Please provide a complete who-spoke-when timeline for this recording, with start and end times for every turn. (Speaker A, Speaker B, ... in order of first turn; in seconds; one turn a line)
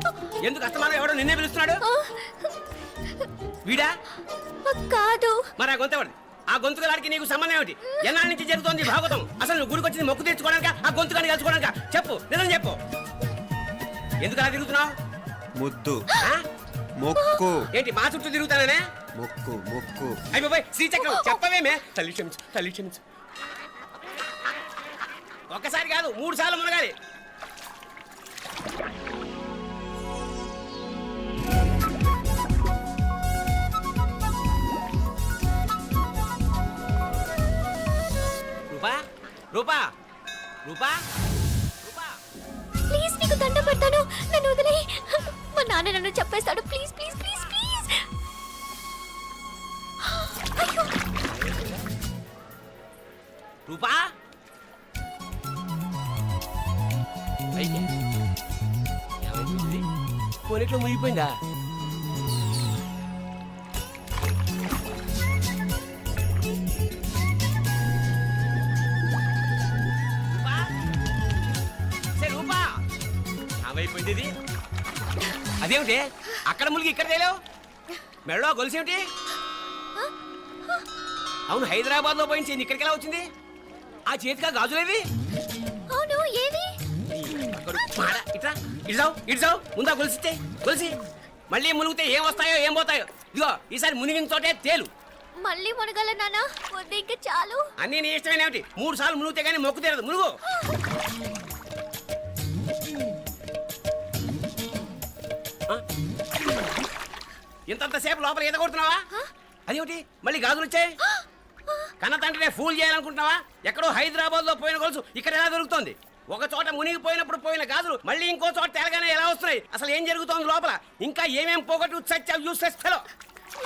Speaker A: 0.4-1.8
Speaker B: 1.8-2.5
Speaker A: 3.7-3.9
Speaker B: 4.7-5.4
Speaker A: 5.6-12.8
Speaker A: 14.2-14.9
Speaker C: 15.6-16.0
Speaker C: 17.0-17.6
Speaker A: 17.8-18.8
Speaker C: 19.2-20.1
Speaker A: 20.3-23.0
Speaker B: 20.9-21.4
Speaker A: 25.5-26.9
Speaker A: 38.7-39.9
Speaker A: 40.7-41.0
Speaker A: 41.8-42.2
Speaker B: 42.9-48.0
Speaker B: 50.1-50.9
Speaker A: 51.3-51.8
Speaker A: 53.7-54.0
Speaker A: 57.6-57.9
Speaker A: 59.2-59.9
Speaker A: 60.5-61.3
Speaker A: 70.3-70.7
Speaker A: 72.2-72.8
Speaker A: 73.6-74.3
Speaker A: 75.6-77.4
Speaker A: 78.3-79.0
Speaker A: 81.5-83.3
Speaker A: 84.1-85.0
Speaker B: 85.9-86.7
Speaker A: 87.1-91.0
Speaker A: 91.5-94.9
Speaker B: 95.4-97.6
Speaker A: 97.8-100.3
Speaker A: 107.7-109.0
Speaker A: 109.7-110.9
Speaker A: 112.0-123.0